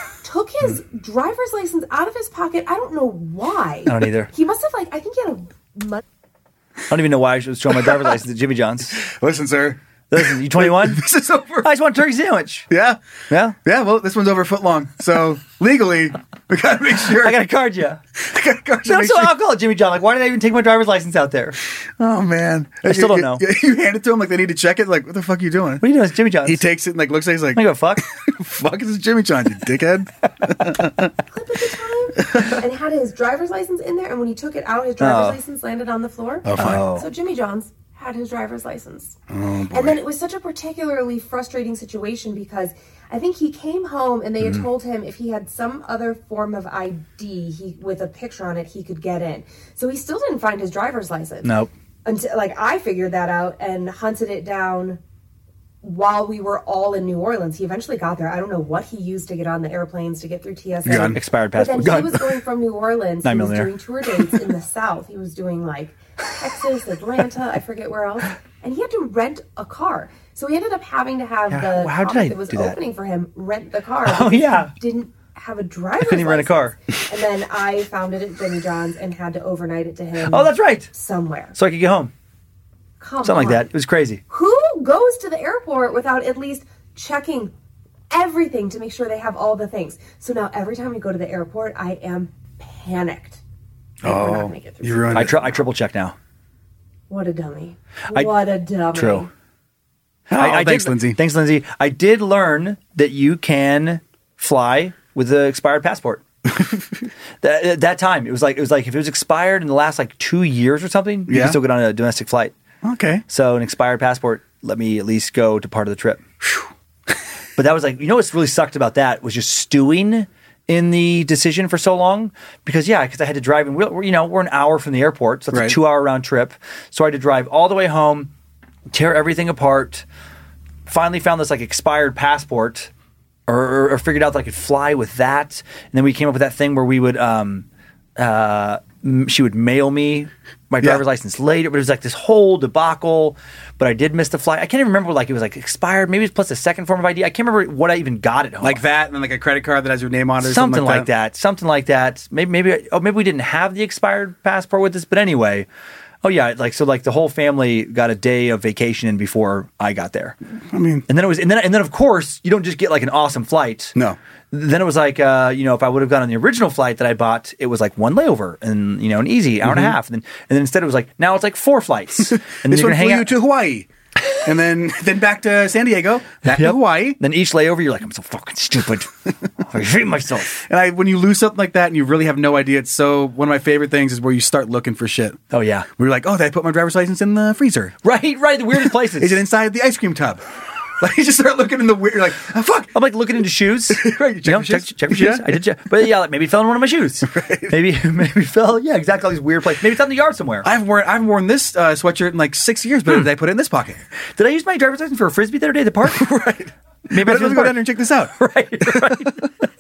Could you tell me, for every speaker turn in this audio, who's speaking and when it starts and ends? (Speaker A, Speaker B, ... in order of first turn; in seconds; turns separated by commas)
Speaker A: 0.2-6.0, Speaker B: 3.9-4.3, Speaker B: 6.9-9.1, Speaker C: 9.1-11.7, Speaker B: 10.1-11.0, Speaker B: 11.6-12.7, Speaker C: 12.7-13.0, Speaker B: 13.3-13.6, Speaker C: 13.6-17.4, Speaker B: 17.2-18.0, Speaker C: 18.2-19.4, Speaker B: 18.9-21.6, Speaker C: 22.0-25.8, Speaker B: 22.9-23.4, Speaker B: 25.8-26.7, Speaker C: 26.4-31.1, Speaker B: 27.6-28.1, Speaker A: 31.3-39.2, Speaker B: 35.0-35.4, Speaker C: 36.5-36.8, Speaker B: 36.6-37.1, Speaker C: 39.3-40.0, Speaker A: 39.7-51.5, Speaker B: 51.4-51.7, Speaker A: 52.0-55.0, Speaker A: 55.8-81.6, Speaker C: 60.9-61.2, Speaker B: 60.9-62.4, Speaker B: 63.2-63.7, Speaker B: 71.5-72.8, Speaker B: 74.0-74.7, Speaker B: 76.0-76.8, Speaker B: 80.2-80.9, Speaker B: 81.5-82.1, Speaker A: 83.0-83.7, Speaker B: 83.2-84.2, Speaker A: 84.3-87.5, Speaker A: 88.1-93.4, Speaker C: 94.0-95.4, Speaker A: 94.0-95.4, Speaker B: 95.1-96.2, Speaker A: 97.1-99.3, Speaker B: 98.9-99.3, Speaker C: 100.3-101.2, Speaker B: 100.3-106.2, Speaker C: 106.5-106.8, Speaker B: 107.4-112.5, Speaker C: 111.3-111.6, Speaker C: 112.8-113.2, Speaker B: 113.3-116.2, Speaker B: 117.6-128.3, Speaker C: 125.5-125.8, Speaker B: 128.9-130.1, Speaker B: 130.9-132.9, Speaker B: 133.5-137.7, Speaker B: 138.2-148.8, Speaker C: 148.6-151.1, Speaker B: 150.4-155.7, Speaker B: 156.2-160.4, Speaker C: 160.7-161.1, Speaker B: 161.1-163.9, Speaker B: 164.5-173.3, Speaker C: 169.6-169.9, Speaker C: 172.7-173.9, Speaker C: 174.4-177.2, Speaker B: 176.5-179.1, Speaker B: 179.6-180.6, Speaker C: 180.6-185.4, Speaker B: 185.5-185.9, Speaker C: 186.0-187.9, Speaker B: 188.0-189.4, Speaker C: 189.1-190.4, Speaker C: 191.0-192.9, Speaker B: 192.9-200.7, Speaker C: 193.9-195.5, Speaker C: 197.2-197.8, Speaker C: 200.6-204.0, Speaker B: 204.4-206.3, Speaker C: 206.1-208.3, Speaker B: 207.1-209.5, Speaker C: 208.9-209.2